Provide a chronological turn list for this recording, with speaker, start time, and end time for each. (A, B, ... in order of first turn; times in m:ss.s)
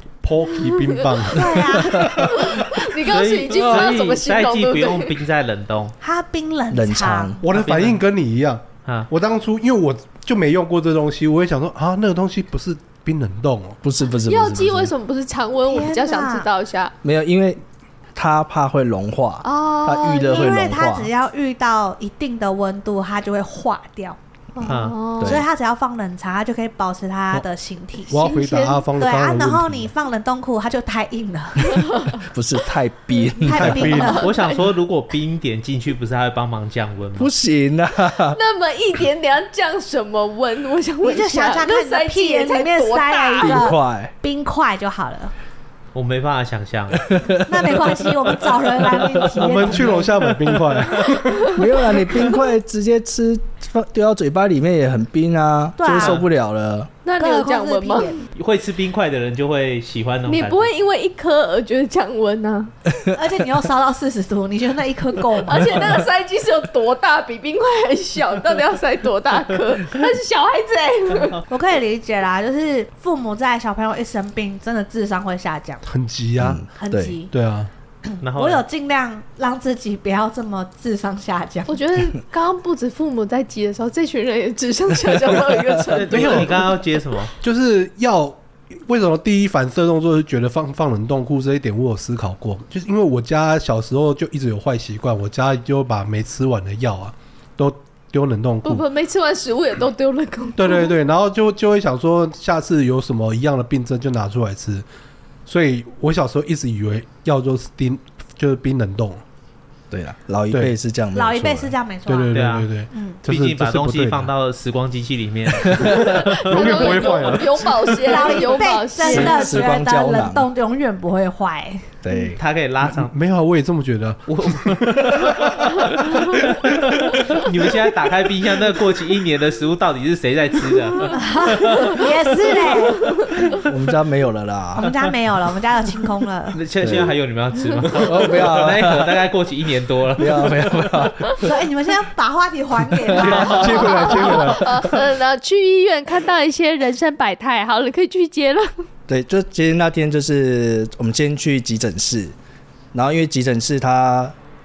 0:00.2-0:02.6 A
0:00.7-0:01.0 B
0:01.3-0:02.2 C
0:01.9-0:05.2 B
0:02.9-0:06.0 D
0:06.0-0:07.4 C
0:06.7-0:07.4 E
0:07.4-0:13.8 A
0:07.4-0:08.0 D
0:13.8-0:14.9 E
0:14.2-0:16.9 B
0:15.7-0:16.5 C
0:17.0-0:17.6 E
0:18.1-0:21.1 E
0:19.4-0:20.6 B
0:20.2-0:24.2 C
0:24.6-0:25.4 B
0:24.6-0:25.0 D
0:25.2-0:31.9 C
0:25.2-0:25.5 E
0:28.1-0:29.9 A
0:28.2-0:28.9 B
0:31.7-0:32.2 B
0:32.2-0:34.0 E
0:33.4-0:34.3 C
0:33.5-0:34.3 A
0:33.9-0:34.6 B
0:34.0-0:37.3 D
0:37.2-0:38.4 E
0:38.2-0:43.7 B
0:41.0-0:45.3 C
0:43.4-0:44.1 E
0:45.9-0:47.1 D
0:46.9-0:48.1 E
0:47.4-0:50.1 C
0:49.3-0:51.6 A
0:51.5-0:52.4 B
0:51.5-0:56.9 E
0:55.8-0:56.2 C
0:55.9-0:56.2 D
0:57.0-0:58.2 B
0:57.2-0:58.2 C
0:58.4-1:00.7 D
1:00.2-1:02.7 B
1:03.1-1:05.9 C
1:05.4-1:11.4 B
1:11.5-1:15.8 C
1:15.8-1:16.6 A
1:16.4-1:17.2 E
1:16.8-1:17.3 C
1:17.3-1:17.7 A
1:18.0-1:21.9 C
1:18.2-1:18.6 D
1:21.7-1:26.8 B
1:25.9-1:27.3 D
1:26.1-1:26.6 A
1:27.4-1:38.8 A
1:38.6-1:40.9 B
1:40.6-1:44.8 A
1:45.4-1:49.2 A
1:49.9-1:51.7 E
1:51.1-1:52.3 C
1:52.1-1:54.3 A
1:52.3-1:52.7 D
1:52.9-1:53.2 C
1:53.2-1:56.8 D
1:55.6-1:58.5 A
1:56.3-1:59.4 B
1:58.0-2:02.0 C
1:59.0-2:00.5 E
2:02.0-2:02.4 E
2:02.4-2:03.1 D
2:02.8-2:07.4 A
2:04.3-2:12.1 D
2:11.2-2:13.2 C
2:13.0-2:13.6 B
2:13.6-2:14.9 E
2:14.8-2:16.6 C
2:16.5-2:20.6 D
2:16.8-2:17.1 E
2:17.8-2:19.2 E
2:20.2-2:21.5 E
2:21.4-2:24.5 C
2:22.9-2:23.4 E
2:23.2-2:24.8 A
2:23.4-2:23.6 D
2:23.7-2:28.8 B
2:29.1-2:32.3 E
2:32.9-2:34.3 E